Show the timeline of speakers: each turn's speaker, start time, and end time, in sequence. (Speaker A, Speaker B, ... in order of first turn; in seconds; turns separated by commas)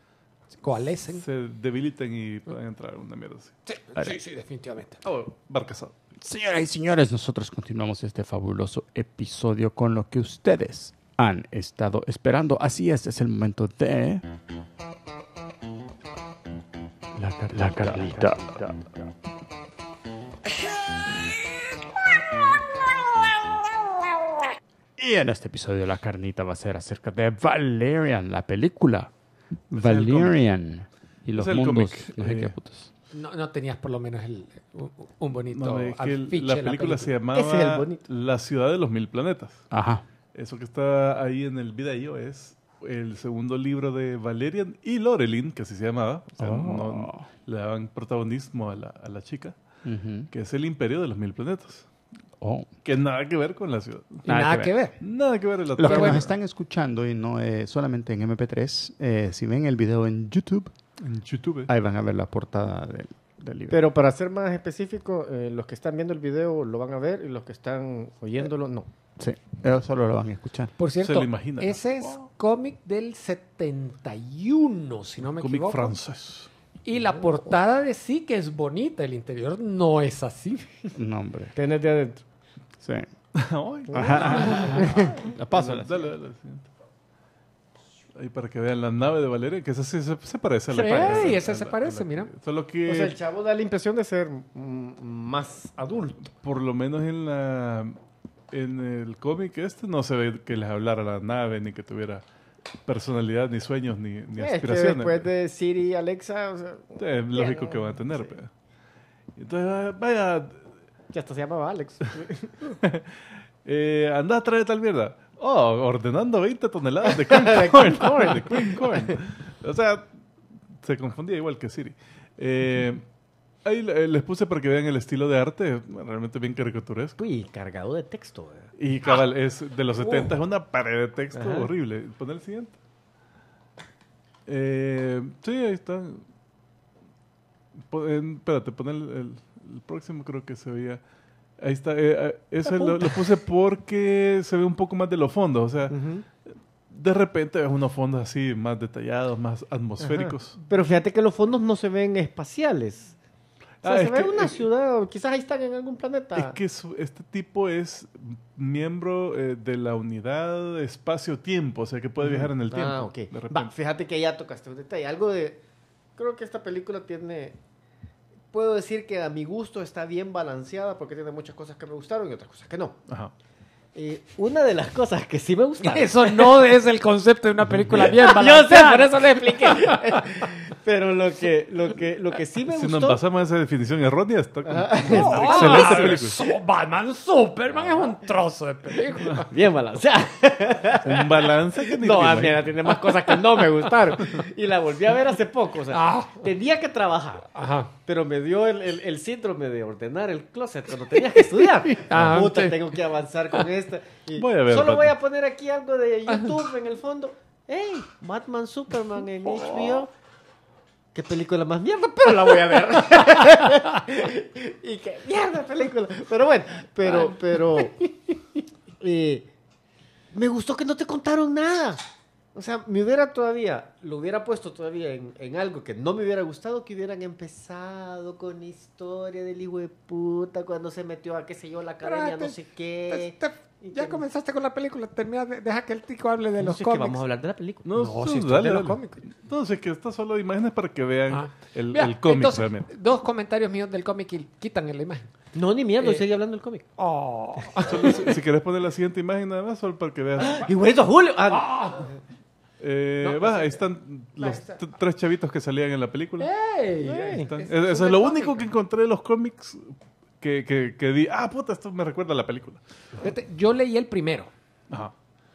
Speaker A: 0.6-1.2, Speaker B: 1.1-3.5, Speaker A: 3.7-5.0, Speaker B: 5.0-5.9, Speaker C: 6.2-14.2, Speaker C: 17.1-19.1, Speaker B: 17.5-18.4, Speaker C: 22.2-24.4, Speaker C: 25.0-29.1, Speaker C: 29.7-32.9, Speaker B: 29.7-30.3, Speaker B: 31.3-32.5, Speaker A: 33.1-37.1, Speaker B: 35.5-39.6, Speaker D: 37.3-38.0, Speaker C: 39.7-40.0, Speaker B: 40.3-49.5, Speaker C: 46.4-47.2, Speaker C: 49.9-50.3, Speaker B: 50.3-51.9, Speaker C: 52.4-52.7, Speaker B: 52.8-54.2, Speaker A: 54.2-55.0, Speaker C: 54.3-54.7, Speaker B: 55.0-56.3, Speaker C: 55.8-60.7, Speaker A: 55.8-56.2, Speaker B: 61.0-61.7, Speaker C: 61.7-63.8, Speaker D: 63.7-68.9, Speaker C: 69.2-70.7, Speaker A: 70.8-76.0, Speaker B: 71.0-72.0, Speaker B: 75.3-76.5, Speaker A: 76.8-80.9, Speaker C: 81.0-81.5, Speaker D: 81.5-82.2, Speaker C: 82.8-83.1, Speaker B: 83.3-86.7, Speaker C: 83.9-86.1, Speaker D: 84.0-85.2, Speaker A: 84.4-84.8, Speaker B: 88.1-93.2, Speaker A: 90.7-92.3, Speaker D: 90.9-91.2, Speaker D: 92.8-95.8, Speaker B: 95.8-98.0, Speaker B: 98.5-102.2, Speaker B: 102.8-105.2, Speaker D: 104.4-108.3, Speaker B: 107.0-108.5, Speaker B: 109.3-110.6, Speaker D: 111.1-112.5, Speaker B: 112.7-120.1, Speaker D: 117.0-119.2, Speaker B: 120.8-123.0, Speaker B: 123.6-127.2, Speaker D: 127.2-128.7, Speaker B: 128.8-132.8, Speaker A: 130.0-130.4, Speaker D: 131.3-131.7, Speaker B: 134.4-136.2, Speaker B: 137.9-141.0, Speaker B: 141.6-146.0, Speaker D: 142.6-143.2, Speaker D: 145.9-146.2, Speaker B: 146.9-150.6, Speaker D: 150.0-153.2, Speaker B: 153.8-154.6, Speaker D: 153.8-156.5, Speaker B: 156.3-163.7, Speaker D: 162.2-165.6, Speaker D: 166.2-167.6, Speaker D: 168.5-173.0, Speaker D: 173.9-176.7, Speaker A: 175.8-180.5, Speaker B: 177.7-178.1, Speaker D: 177.9-183.2, Speaker B: 182.7-186.4, Speaker D: 184.6-186.2, Speaker A: 185.0-189.5, Speaker D: 187.7-188.1, Speaker D: 189.4-197.5, Speaker B: 191.0-192.7, Speaker A: 193.4-194.3, Speaker A: 195.9-196.4, Speaker A: 197.5-197.9, Speaker D: 198.0-210.1, Speaker A: 201.3-202.8, Speaker B: 204.3-205.1, Speaker A: 206.3-206.5, Speaker A: 209.4-210.0, Speaker D: 211.1-217.9, Speaker A: 212.4-214.0, Speaker A: 217.0-218.1, Speaker D: 219.0-219.5, Speaker D: 220.3-222.0, Speaker D: 222.5-234.2, Speaker A: 232.0-232.6, Speaker A: 233.1-237.2, Speaker D: 236.6-239.0, Speaker B: 237.8-242.9, Speaker A: 237.9-239.2, Speaker A: 241.3-245.3, Speaker D: 245.5-246.8, Speaker A: 246.0-246.2, Speaker A: 247.0-248.3, Speaker B: 247.8-250.7, Speaker D: 250.4-252.0, Speaker A: 251.5-252.1, Speaker B: 252.8-256.5, Speaker A: 253.2-253.8, Speaker A: 254.4-254.8, Speaker A: 256.4-258.6, Speaker D: 257.0-257.5, Speaker B: 257.4-262.8, Speaker A: 263.2-264.5